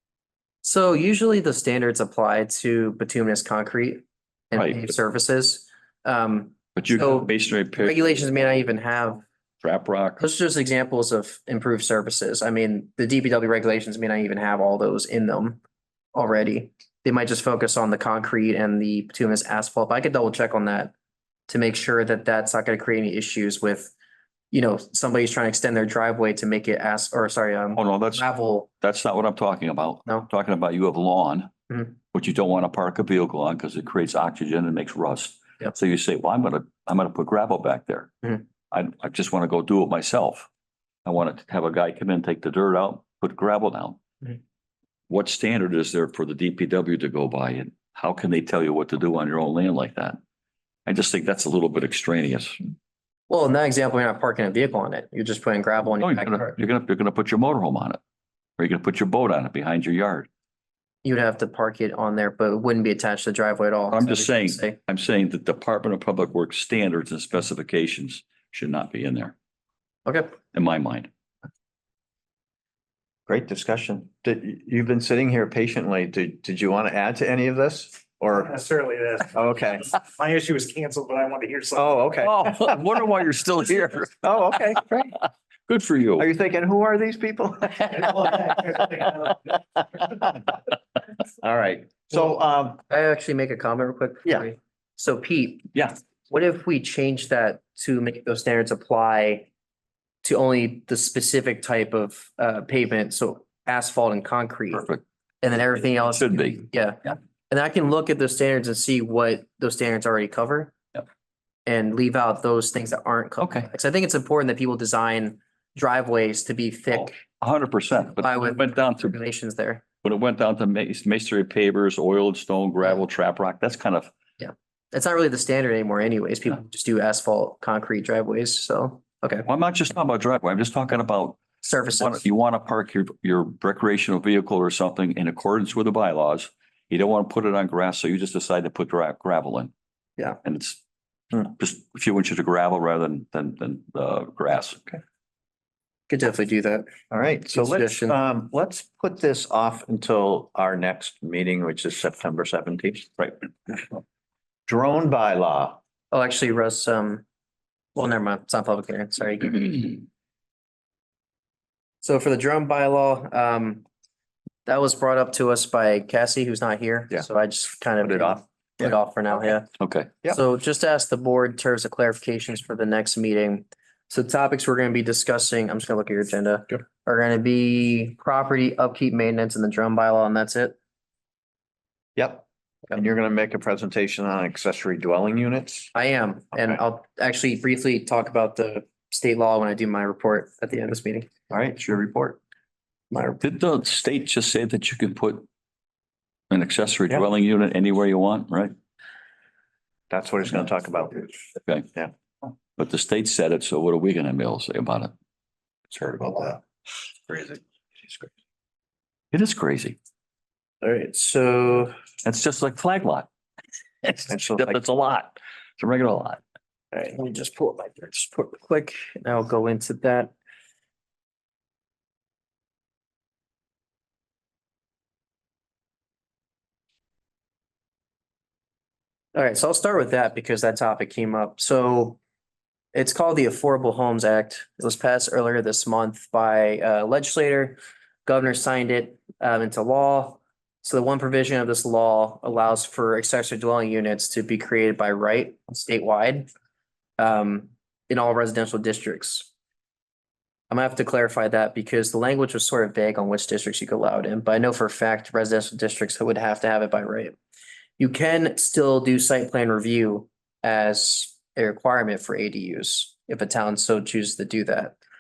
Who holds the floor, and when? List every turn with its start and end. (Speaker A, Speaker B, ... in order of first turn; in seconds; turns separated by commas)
Speaker A: 0.6-9.2, Speaker B: 4.5-4.9, Speaker B: 6.8-8.6, Speaker B: 9.6-10.2, Speaker A: 10.2-15.6, Speaker A: 16.1-20.9, Speaker A: 21.5-23.9, Speaker A: 24.5-28.7, Speaker B: 27.8-28.2, Speaker B: 28.8-31.5, Speaker B: 32.1-38.1, Speaker B: 38.7-40.5, Speaker B: 41.0-44.0, Speaker B: 45.1-50.2, Speaker B: 50.9-52.5, Speaker A: 53.3-56.5, Speaker B: 56.0-58.0, Speaker B: 58.6-60.3, Speaker A: 61.0-64.8, Speaker B: 63.9-69.3, Speaker A: 70.0-70.3, Speaker B: 70.5-71.1, Speaker C: 73.3-78.6, Speaker D: 78.5-79.3, Speaker C: 79.3-79.9, Speaker D: 80.0-82.0, Speaker C: 81.7-82.7, Speaker B: 82.2-84.3, Speaker C: 84.2-85.2, Speaker B: 85.7-86.2, Speaker C: 86.2-90.6, Speaker D: 88.1-89.3, Speaker C: 91.4-92.8, Speaker A: 92.9-95.7, Speaker A: 96.3-99.5, Speaker A: 100.2-104.9, Speaker B: 104.7-105.0, Speaker A: 105.4-110.8, Speaker B: 106.1-106.6, Speaker A: 111.7-117.2, Speaker B: 113.4-113.7, Speaker B: 116.9-119.2, Speaker A: 118.2-119.8, Speaker B: 120.0-124.1, Speaker A: 124.4-129.5, Speaker B: 129.4-131.4, Speaker A: 131.6-132.2, Speaker B: 131.9-139.7, Speaker B: 140.4-140.8, Speaker B: 141.3-145.0, Speaker A: 146.1-146.9, Speaker C: 147.1-153.8, Speaker A: 147.5-148.2, Speaker C: 154.7-155.8, Speaker A: 156.1-157.2, Speaker A: 157.9-160.0, Speaker A: 162.0-163.8, Speaker A: 164.7-169.7, Speaker C: 168.0-168.9, Speaker B: 169.8-170.1, Speaker A: 170.2-180.8, Speaker C: 182.2-185.9, Speaker A: 185.9-191.3, Speaker C: 191.5-192.4, Speaker A: 193.1-193.4, Speaker B: 193.4-195.4, Speaker B: 196.5-198.7, Speaker C: 200.1-201.3, Speaker B: 202.8-205.1, Speaker C: 205.9-206.6, Speaker C: 207.3-208.3, Speaker B: 209.3-210.0, Speaker A: 210.8-211.9, Speaker B: 212.2-213.3, Speaker B: 214.0-216.4, Speaker C: 214.3-214.8, Speaker A: 216.9-220.3, Speaker A: 229.3-232.2, Speaker A: 232.9-246.5, Speaker A: 247.2-249.5, Speaker A: 250.7-257.3, Speaker A: 258.0-265.0